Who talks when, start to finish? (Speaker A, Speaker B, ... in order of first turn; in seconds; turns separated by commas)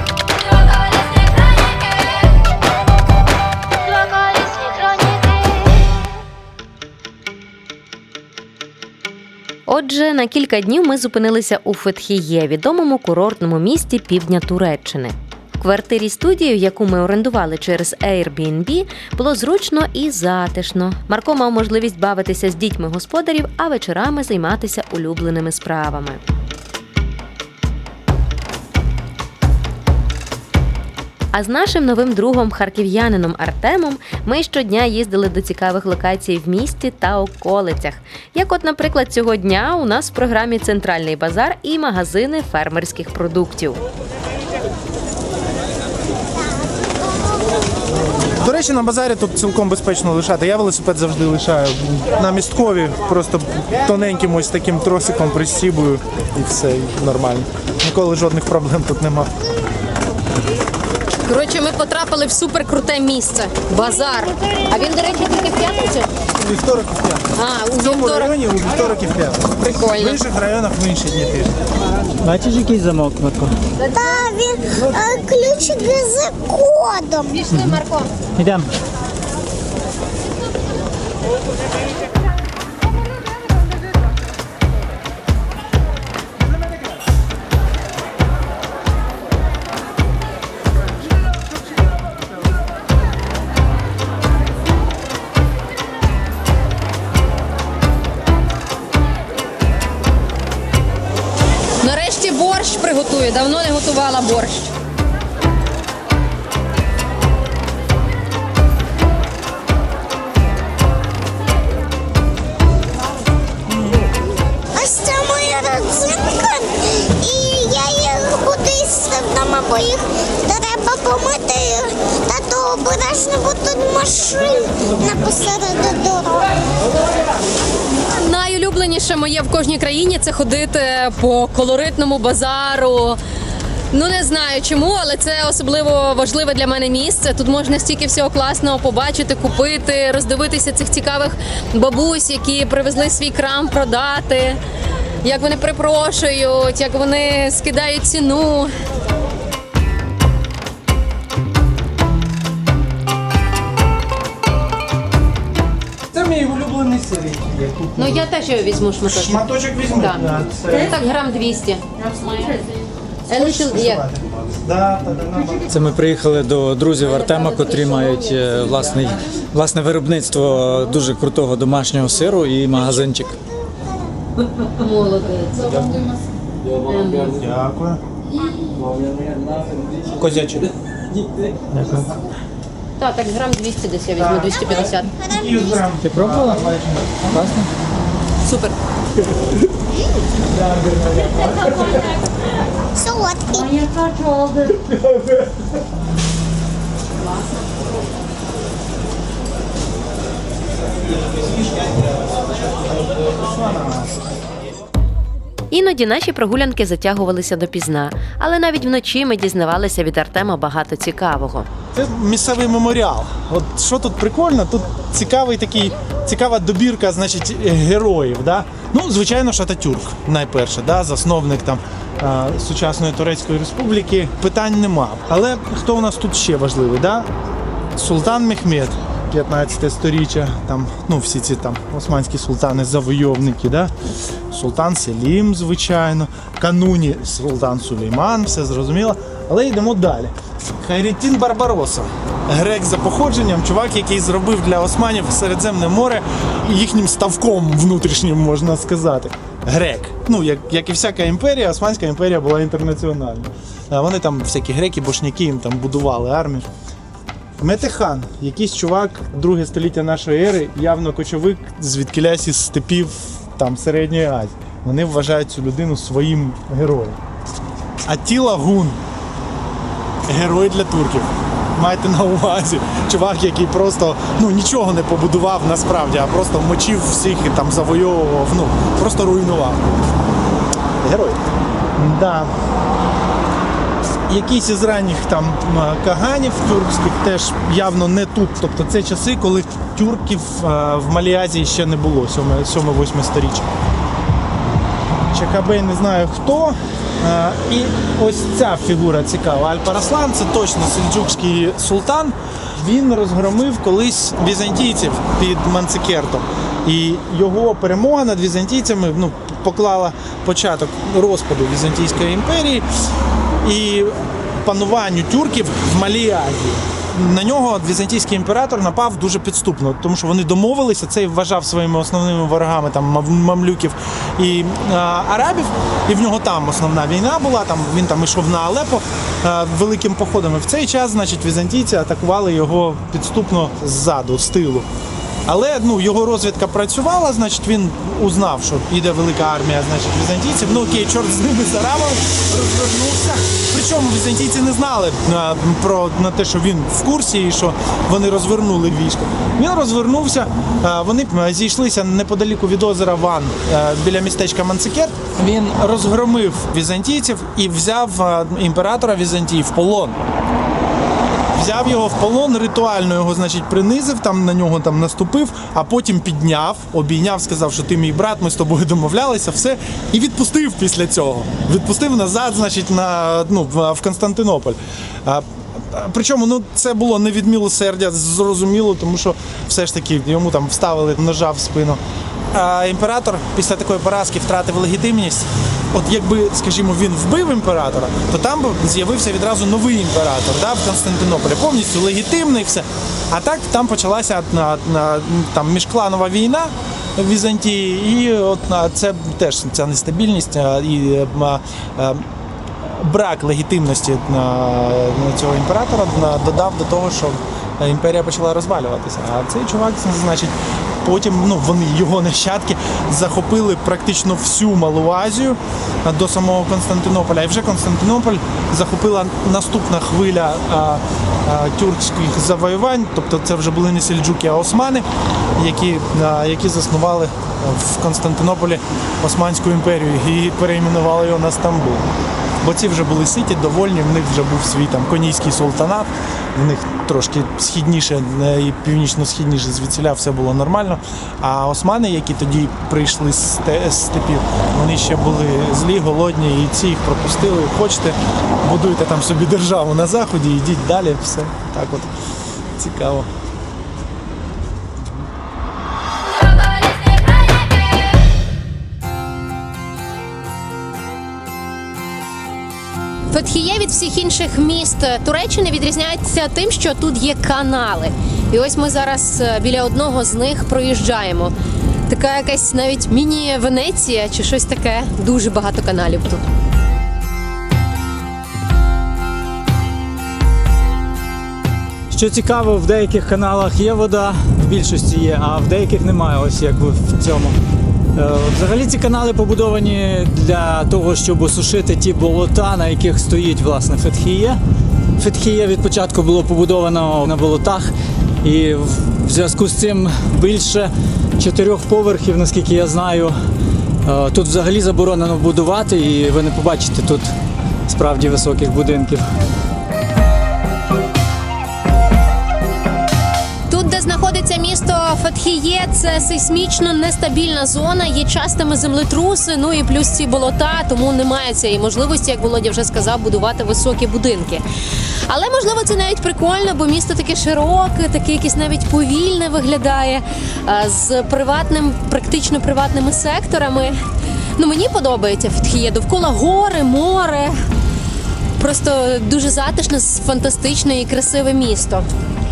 Speaker A: 0.4-2.5, Speaker A: 3.8-5.9, Speaker B: 9.7-26.2, Speaker B: 31.3-43.8, Speaker C: 48.4-59.3, Speaker A: 61.3-66.1, Speaker C: 66.4-71.6, Speaker A: 67.3-68.3, Speaker A: 69.6-70.2, Speaker D: 72.2-73.5, Speaker E: 73.8-77.5, Speaker A: 77.4-78.1, Speaker D: 77.5-77.8, Speaker D: 78.4-78.7, Speaker A: 101.8-104.7, Speaker E: 114.7-126.5, Speaker A: 128.2-133.2, Speaker A: 133.9-144.6, Speaker A: 145.2-148.7, Speaker C: 156.1-158.3, Speaker A: 157.9-162.6, Speaker C: 159.0-161.0, Speaker A: 163.3-164.0, Speaker C: 163.3-165.7, Speaker D: 165.7-173.4, Speaker A: 167.2-168.7, Speaker A: 174.7-176.1, Speaker A: 176.8-177.3, Speaker C: 177.3-178.0, Speaker D: 178.8-180.0, Speaker C: 180.1-180.7, Speaker D: 181.7-182.1, Speaker A: 183.0-185.1, Speaker C: 184.2-187.4, Speaker E: 185.2-185.8, Speaker D: 186.0-186.7, Speaker D: 187.3-187.7, Speaker A: 188.4-188.7, Speaker C: 190.4-192.2, Speaker E: 192.9-193.9, Speaker A: 194.2-194.5, Speaker C: 194.6-195.6, Speaker C: 201.1-204.3, Speaker B: 205.7-211.7, Speaker C: 211.9-227.3, Speaker C: 227.9-233.9, Speaker C: 234.5-256.6, Speaker C: 257.6-267.2, Speaker C: 268.0-269.0, Speaker C: 270.3-279.9, Speaker C: 281.0-281.4, Speaker C: 281.9-282.5, Speaker C: 284.3-293.7, Speaker C: 295.3-312.9, Speaker C: 313.6-334.9, Speaker C: 335.4-360.2, Speaker C: 361.5-402.2, Speaker C: 402.8-432.1, Speaker C: 432.6-452.1, Speaker C: 452.8-453.3, Speaker A: 463.3-471.5, Speaker A: 472.1-476.4, Speaker D: 482.1-487.6, Speaker D: 488.1-494.6, Speaker D: 495.2-503.4, Speaker D: 504.0-507.3, Speaker D: 507.9-509.3, Speaker A: 513.7-534.0, Speaker A: 534.6-537.5, Speaker A: 538.6-542.1